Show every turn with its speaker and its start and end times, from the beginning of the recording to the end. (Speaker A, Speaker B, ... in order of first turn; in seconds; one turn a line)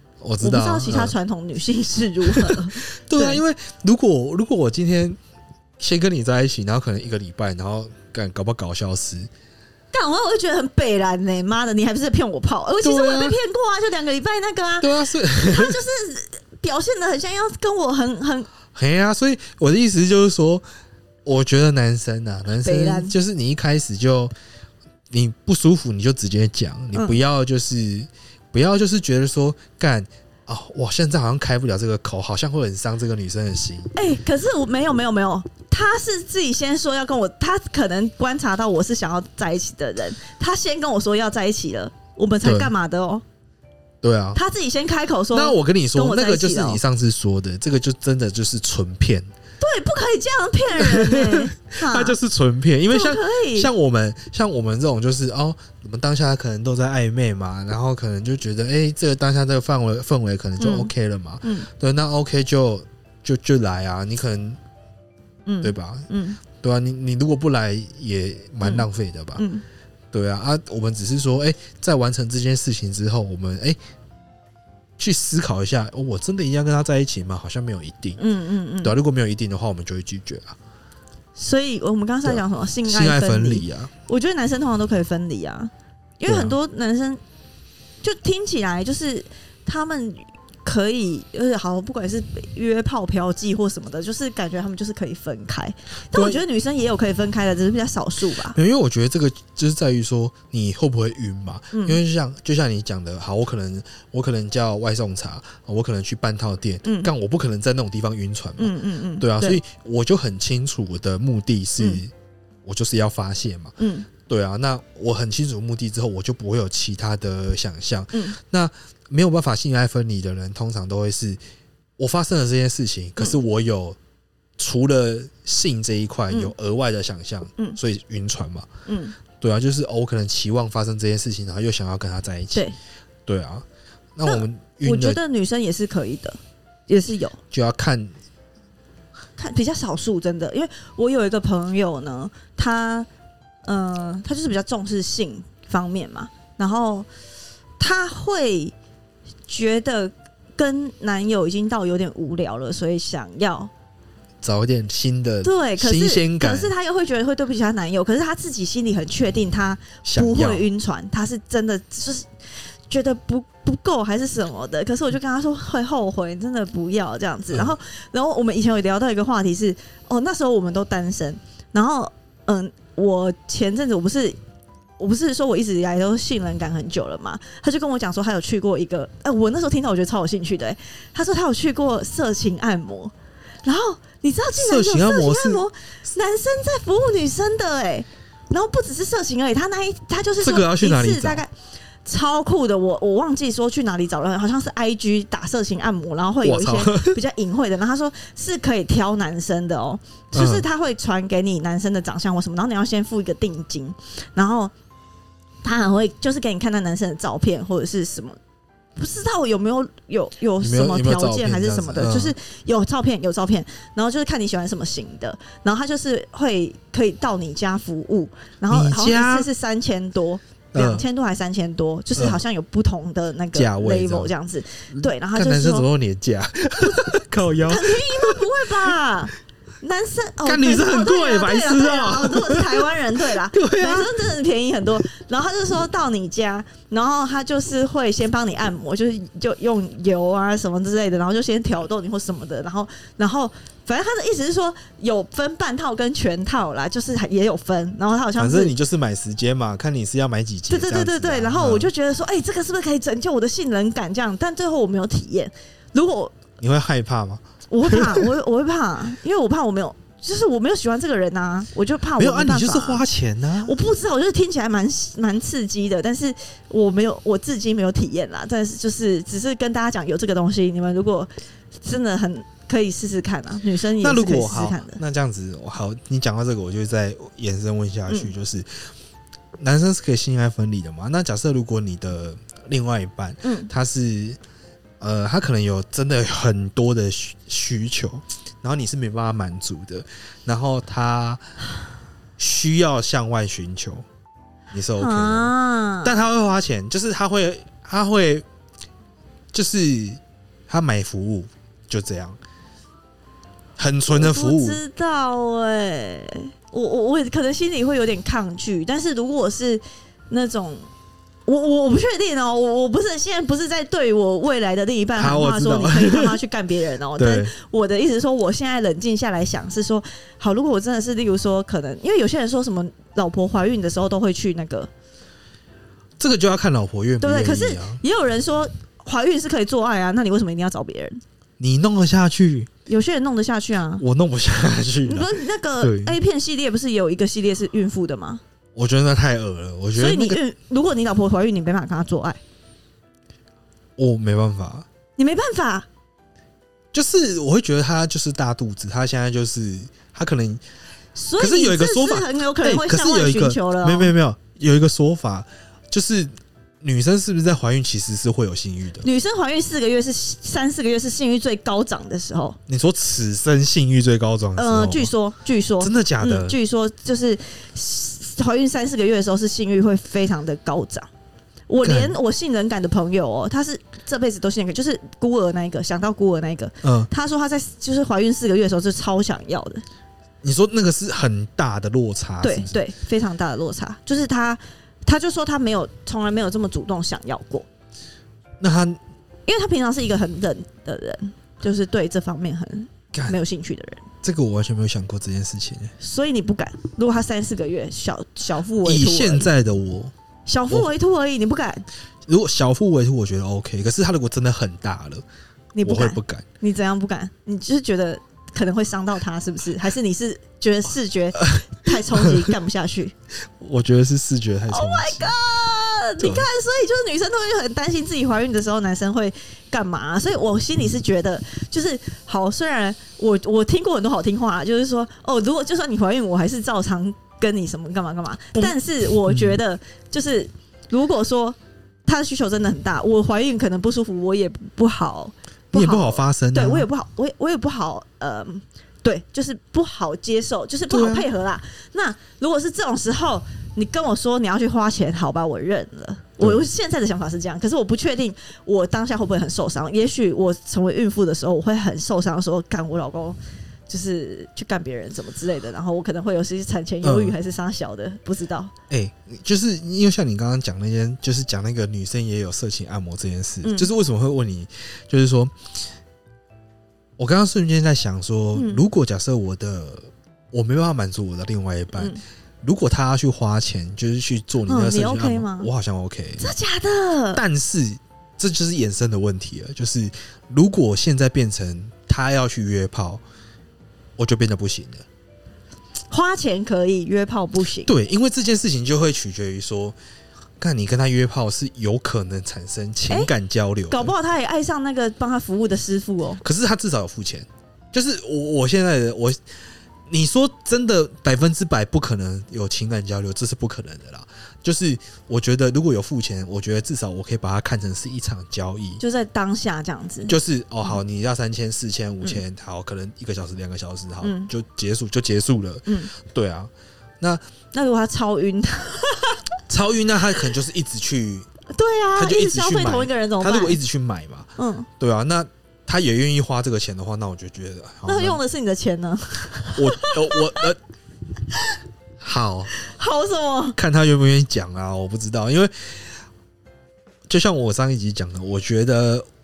Speaker A: 0.2-1.1
Speaker B: 0.4-3.4
Speaker A: 2.2-5.2
Speaker A: 5.8-9.3
Speaker B: 9.9-18.5
Speaker A: 12.8-13.4
Speaker A: 14.8-15.8
Speaker A: 18.7-20.6
Speaker A: 21.2-24.3
Speaker B: 22.6-23.1
Speaker A: 25.1-33.9
Speaker B: 26.9-27.2
Speaker B: 33.9-43.2
Speaker A: 42.4-42.7
Speaker A: 44.0-44.4
Speaker B: 44.3-46.8
Speaker A: 45.3-49.3
Speaker B: 49.6-52.2
Speaker A: 50.8-64.6
Speaker B: 52.9-53.7
Speaker B: 60.6-60.9
Speaker B: 61.4-61.7
Speaker B: 65.5-66.4
Speaker A: 65.6-69.4
Speaker B: 68.6-69.6
Speaker A: 70.1-73.8
Speaker A: 75.0-78.2
Speaker B: 78.2-78.9
Speaker A: 78.8-80.5
Speaker B: 81.3-87.2
Speaker A: 82.2-83.9
Speaker A: 86.2-86.5
Speaker B: 88.0-98.6
Speaker A: 96.1-96.4
Speaker A: 98.4-112.1
Speaker B: 101.7-102.0
Speaker B: 106.8-107.1
Speaker B: 108.6-109.6
Speaker A: 112.6-121.4
Speaker B: 113.8-114.1
Speaker A: 122.0-124.0
Speaker A: 124.6-128.7
Speaker B: 128.8-129.2
Speaker A: 129.4-132.7
Speaker A: 133.2-135.2
Speaker B: 134.2-137.4
Speaker A: 137.5-138.1
Speaker B: 139.4-143.1
Speaker B: 143.6-147.1
Speaker B: 147.8-148.7
Speaker B: 149.5-153.7
Speaker A: 154.4-156.7
Speaker B: 155.4-162.3
Speaker A: 160.0-160.7
Speaker B: 162.9-174.4
Speaker B: 175.0-183.1
Speaker B: 183.6-191.5
Speaker A: 184.5-185.6
Speaker A: 190.4-191.4
Speaker B: 192.0-204.7
Speaker A: 196.4-197.2
Speaker A: 200.3-200.7
Speaker B: 205.6-208.4
Speaker B: 209.0-225.9
Speaker A: 210.6-212.3
Speaker A: 218.7-219.5
Speaker A: 220.7-221.1
Speaker A: 222.2-222.4
Speaker A: 223.5-224.3
Speaker A: 225.0-228.9
Speaker B: 227.6-248.7
Speaker A: 230.4-234.2
Speaker A: 248.4-251.9
Speaker B: 250.7-256.4
Speaker A: 256.6-258.3
Speaker B: 257.7-263.0
Speaker A: 262.2-263.7
Speaker B: 263.6-275.0
Speaker A: 274.0-278.9
Speaker A: 279.6-284.4
Speaker B: 283.4-283.7
Speaker A: 285.0-291.4
Speaker A: 292.4-294.1
Speaker A: 294.7-298.4
Speaker B: 295.0-296.2
Speaker A: 299.5-302.4
Speaker A: 303.8-304.8
Speaker B: 304.1-310.9
Speaker B: 311.5-324.9
Speaker A: 315.2-316.4
Speaker A: 317.1-317.5
Speaker A: 326.2-328.0
Speaker B: 327.2-331.2
Speaker A: 331.6-332.7
Speaker B: 332.9-334.0
Speaker A: 334.0-336.2
Speaker B: 335.0-338.4
Speaker A: 338.7-340.4
Speaker B: 339.9-342.4
Speaker A: 344.0-344.9
Speaker B: 345.2-345.9
Speaker A: 346.9-350.6
Speaker B: 351.1-354.1
Speaker A: 351.4-359.1
Speaker B: 359.0-362.6
Speaker A: 362.7-365.1
Speaker B: 364.6-371.1
Speaker A: 365.8-366.6
Speaker B: 371.7-379.8
Speaker A: 371.8-372.1
Speaker A: 376.8-377.1
Speaker A: 380.4-382.8
Speaker B: 382.4-387.7
Speaker A: 388.6-389.0
Speaker B: 389.5-394.0
Speaker A: 394.2-395.9
Speaker B: 396.0-399.5
Speaker A: 398.8-400.1
Speaker B: 400.5-401.9
Speaker A: 402.3-405.2
Speaker B: 405.7-413.1
Speaker A: 405.8-406.4
Speaker A: 411.4-412.5
Speaker A: 413.6-415.3
Speaker B: 414.7-453.4
Speaker A: 416.2-416.5
Speaker A: 429.3-429.6
Speaker A: 435.7-436.9
Speaker A: 440.9-441.3
Speaker B: 453.9-458.7
Speaker A: 457.0-457.4
Speaker A: 458.9-465.5
Speaker B: 463.6-463.9
Speaker A: 467.2-476.5
Speaker B: 468.5-468.8
Speaker B: 471.9-472.2
Speaker B: 474.7-475.7
Speaker B: 476.4-477.4
Speaker A: 477.3-483.2
Speaker A: 484.2-485.0
Speaker B: 486.1-487.9
Speaker A: 487.9-489.9
Speaker A: 490.6-494.1
Speaker B: 493.9-496.4
Speaker A: 496.4-499.4
Speaker A: 500.1-509.0
Speaker B: 509.0-511.0
Speaker A: 510.3-517.4
Speaker B: 514.2-514.5
Speaker B: 515.9-516.1
Speaker B: 517.7-519.4
Speaker A: 519.7-521.5
Speaker B: 521.7-523.8
Speaker A: 522.1-528.4
Speaker B: 524.6-524.9
Speaker B: 528.0-530.7
Speaker A: 529.7-530.8
Speaker A: 532.2-532.7
Speaker B: 532.7-533.8
Speaker A: 533.8-536.1
Speaker A: 537.3-539.2